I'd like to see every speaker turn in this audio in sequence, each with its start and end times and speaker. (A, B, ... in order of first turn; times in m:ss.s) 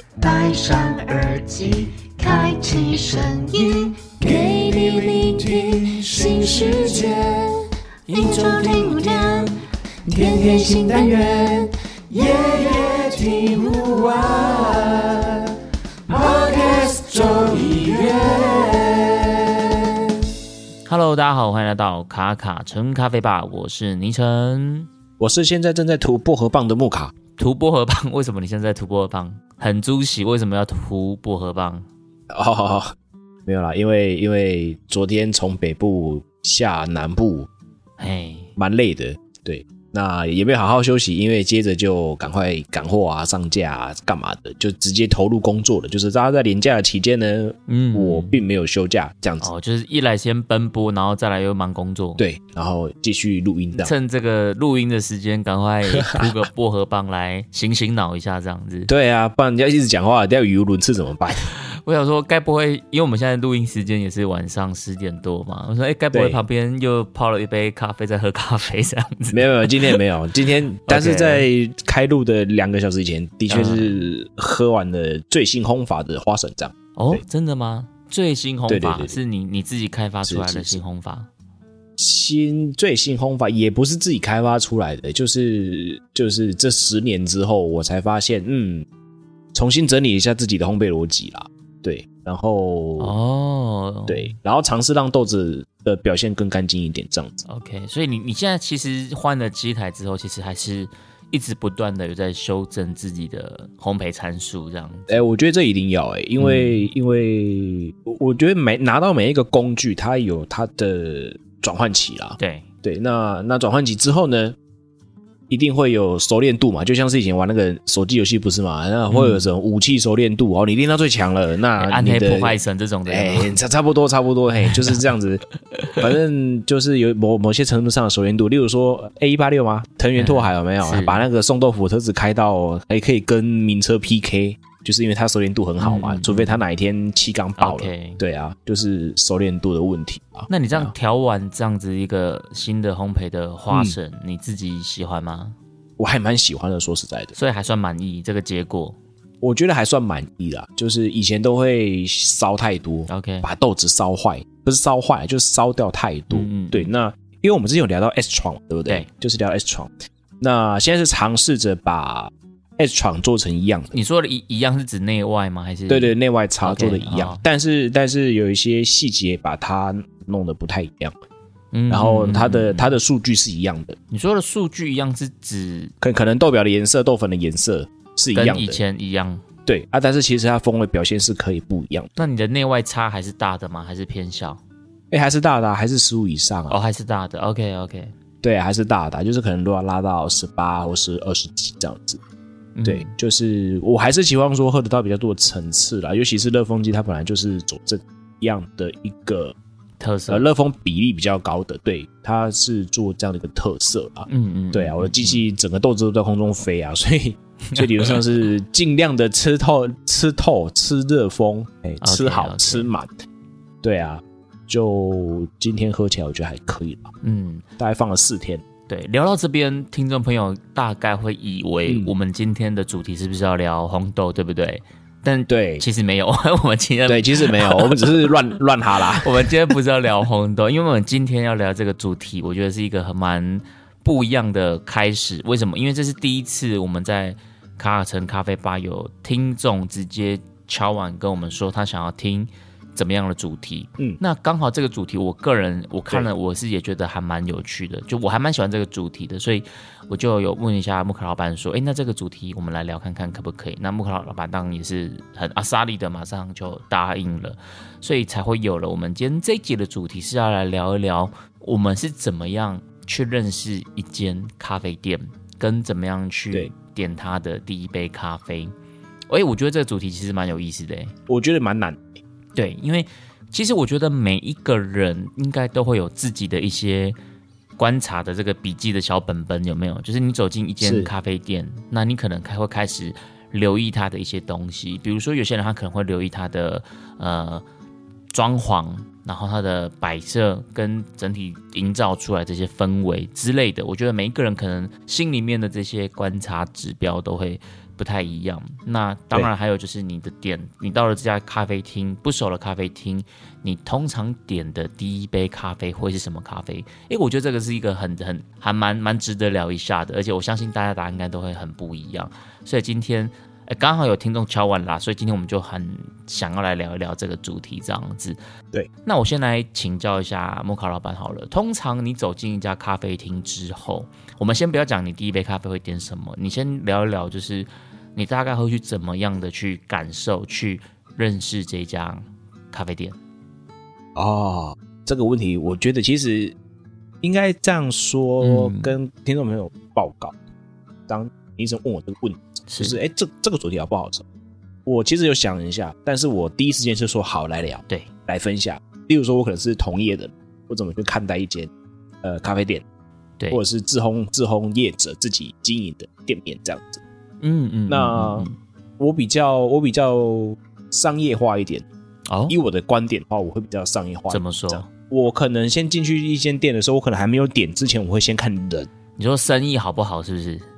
0:00.2-0:01.4 A
0:00.2-0:07.6 B
0:02.1-0:03.5 A
0:04.2-0:07.3 A
0:08.1-0:09.5 C
0:08.1-0:09.5 B
0:10.1-0:15.1 B
0:10.2-0:11.6 A
0:16.1-0:18.8 B
0:16.4-0:18.0 A
0:20.9-0:24.9 C
0:25.2-0:27.1 A
0:27.4-0:31.9 C
0:32.3-0:33.0 A
0:33.5-0:37.5 A
0:38.0-0:38.5 C
0:38.6-0:49.5 A
0:47.7-0:48.4 C
0:49.4-0:52.2 C
0:52.2-0:53.9 A
0:53.8-0:58.9 C
0:55.9-0:56.2 A
0:58.9-1:01.5 A
1:01.6-1:10.0 C
1:06.1-1:06.4 A
1:09.3-1:17.2 A
1:10.9-1:11.5 C
1:13.5-1:14.1 C
1:17.0-1:21.3 C
1:18.7-1:19.2 A
1:20.2-1:20.8 A
1:22.0-1:28.9 A
1:29.5-1:33.2 A
1:33.0-1:34.4 C
1:34.1-1:37.4 A
1:37.4-1:45.2 C
1:45.1-1:54.6 A
1:46.4-1:46.8 C
1:52.4-1:52.7 C
1:55.5-2:02.5 A
1:59.1-1:59.4 C
2:01.8-2:03.6 C
2:03.1-2:05.4 A
2:04.6-2:05.0 C
2:05.7-2:06.1 C
2:06.0-2:20.9 A
2:10.2-2:11.2 C
2:15.8-2:16.6 C
2:17.6-2:18.2 C
2:20.5-2:25.6 C
2:23.7-2:24.0 A
2:26.0-2:27.4 A
2:27.4-2:29.0 C
2:29.4-2:44.0 A
2:33.1-2:33.5 C
2:36.3-2:36.9 C
2:43.9-2:47.4 C
2:45.9-2:51.1 A
2:51.7-2:52.9 C
2:51.9-2:54.0 A
2:54.1-2:55.9 C
2:56.0-2:58.8 A
2:58.3-2:59.4 C
2:59.7-3:02.1 A
3:02.2-3:04.6 C
3:05.1-3:06.8 A
3:06.7-3:08.1 C
3:08.4-3:12.2 A
3:12.8-3:13.1 C
3:12.8-3:19.6 A
3:20.0-3:20.4 C
3:20.3-3:33.1 A
3:24.3-3:25.4 C
3:27.7-3:28.2 C
3:32.0-3:32.9 C
3:33.8-3:37.1 A
3:37.2-3:37.6 C
3:37.8-3:38.6 A
3:38.9-3:48.3 C
3:41.9-3:42.1 A
3:45.5-3:45.8 A
3:47.1-3:49.5 A
3:49.2-4:28.7 C
4:29.3-4:31.1 C
4:31.3-4:32.2 A
4:32.6-4:37.2 C
4:37.8-4:47.6 C
4:40.8-4:41.1 A
4:48.3-5:18.4 C
5:19.0-5:33.2 C
5:34.2-5:36.6 A
5:37.2-5:40.3 A
5:38.4-5:39.0 C
5:41.1-5:44.2 A
5:42.7-5:43.0 C
5:44.9-5:51.7 A
5:52.2-5:52.8 A
5:53.5-5:57.0 A
5:57.4-5:58.6 C
5:57.9-6:01.8 A
6:02.3-6:02.6 C
6:02.5-6:08.9 A
6:04.3-6:04.9 C
6:09.2-6:10.6 C